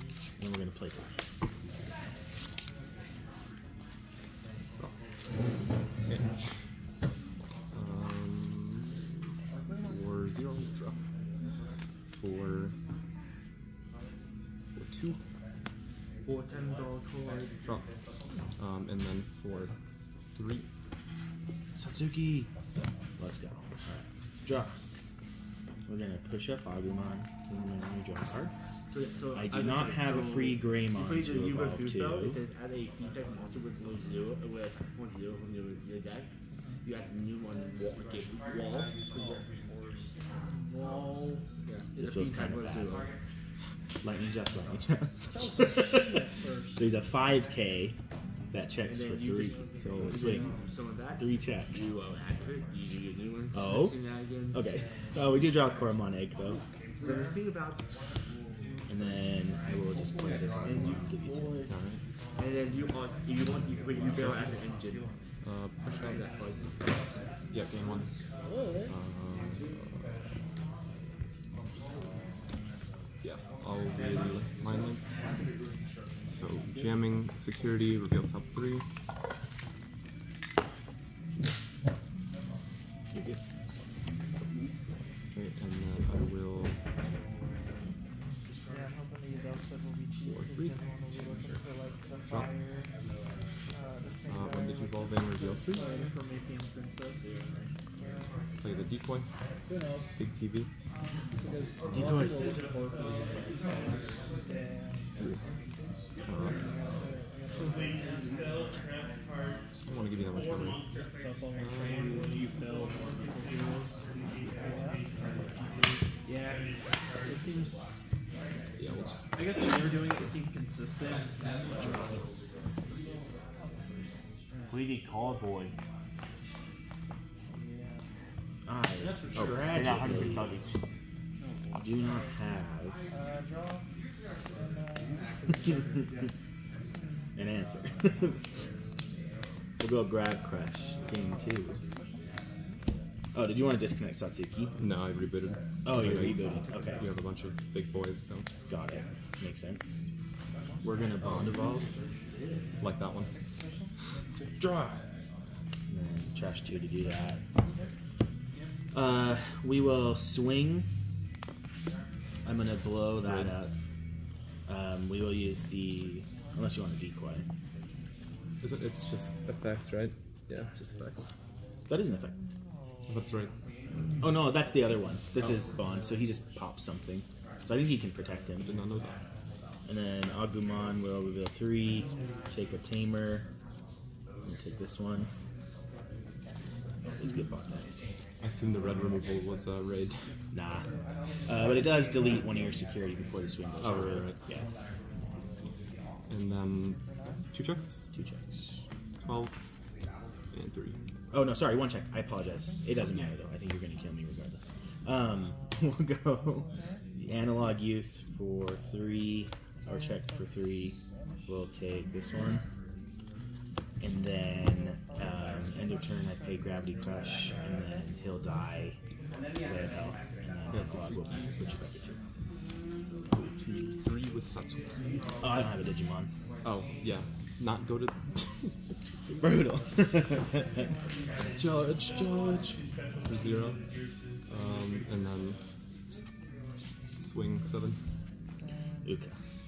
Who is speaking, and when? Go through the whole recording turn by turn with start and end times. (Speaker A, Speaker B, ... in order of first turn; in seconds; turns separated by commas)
Speaker A: 0.4-1.1, Speaker B: 6.1-6.6, Speaker B: 7.7-9.2, Speaker B: 9.8-11.0, Speaker B: 12.1-12.7, Speaker B: 14.7-15.2, Speaker C: 16.2-17.6, Speaker B: 18.6-19.7, Speaker B: 20.3-20.7, Speaker A: 21.7-22.5, Speaker A: 23.2-24.7, Speaker A: 25.9-28.5, Speaker C: 28.9-36.3, Speaker A: 29.3-32.4, Speaker C: 36.8-39.4, Speaker D: 40.4-41.4, Speaker C: 41.6-43.1, Speaker A: 42.0-43.0, Speaker A: 44.0-48.0, Speaker D: 45.3-46.9, Speaker A: 48.5-50.5, Speaker C: 48.8-54.7, Speaker A: 51.2-51.9, Speaker A: 53.5-54.0, Speaker A: 54.5-56.6, Speaker C: 57.0-57.8, Speaker A: 58.9-61.6, Speaker D: 60.8-61.7, Speaker B: 61.7-62.0, Speaker C: 62.4-65.1, Speaker B: 65.4-66.2, Speaker C: 65.9-66.9, Speaker B: 67.5-68.1, Speaker D: 68.4-68.9, Speaker B: 68.8-70.1, Speaker B: 73.2-75.1, Speaker B: 76.3-78.8, Speaker B: 85.3-86.8, Speaker B: 90.2-90.8, Speaker B: 94.3-95.8, Speaker D: 95.5-97.2, Speaker B: 98.6-99.3, Speaker D: 99.7-100.1, Speaker B: 100.2-100.7, Speaker D: 101.4-103.7, Speaker A: 101.9-102.4, Speaker B: 106.2-106.6, Speaker D: 107.5-108.2, Speaker B: 109.8-110.8, Speaker D: 111.1-113.9, Speaker D: 116.2-116.6, Speaker D: 117.2-117.8, Speaker B: 118.8-119.5, Speaker D: 119.3-122.0, Speaker C: 124.7-125.7, Speaker D: 127.5-127.9, Speaker A: 128.7-130.6, Speaker D: 129.2-129.5, Speaker C: 129.6-130.7, Speaker A: 131.8-133.0, Speaker D: 135.5-135.9, Speaker A: 137.3-138.4, Speaker A: 139.8-141.8, Speaker A: 143.3-144.7, Speaker B: 144.8-148.5, Speaker A: 145.8-147.0, Speaker A: 148.7-150.0, Speaker A: 150.8-151.9, Speaker B: 151.2-151.6, Speaker B: 152.8-153.3, Speaker A: 154.6-155.0, Speaker A: 155.9-157.4, Speaker A: 158.9-160.9, Speaker A: 162.4-163.7, Speaker B: 163.2-163.5, Speaker A: 164.7-167.4, Speaker B: 168.6-171.3, Speaker A: 171.9-172.3, Speaker B: 173.1-173.5, Speaker A: 174.2-178.7, Speaker B: 178.6-179.2, Speaker A: 179.8-183.4, Speaker A: 184.4-185.3, Speaker A: 187.2-187.8, Speaker B: 188.4-190.2, Speaker A: 190.5-190.8, Speaker A: 191.4-194.7, Speaker B: 193.8-194.3, Speaker B: 196.3-197.0, Speaker B: 197.5-198.1, Speaker A: 198.1-198.8, Speaker B: 199.2-199.7, Speaker B: 200.5-201.0, Speaker A: 201.3-212.6, Speaker A: 214.0-219.0, Speaker A: 219.6-222.2, Speaker B: 220.7-221.5, Speaker B: 223.3-225.2, Speaker A: 225.4-226.3, Speaker B: 226.6-228.7, Speaker A: 229.4-230.8, Speaker A: 231.4-232.8, Speaker B: 233.2-233.8, Speaker B: 234.5-235.6, Speaker B: 237.2-238.0, Speaker A: 239.0-239.3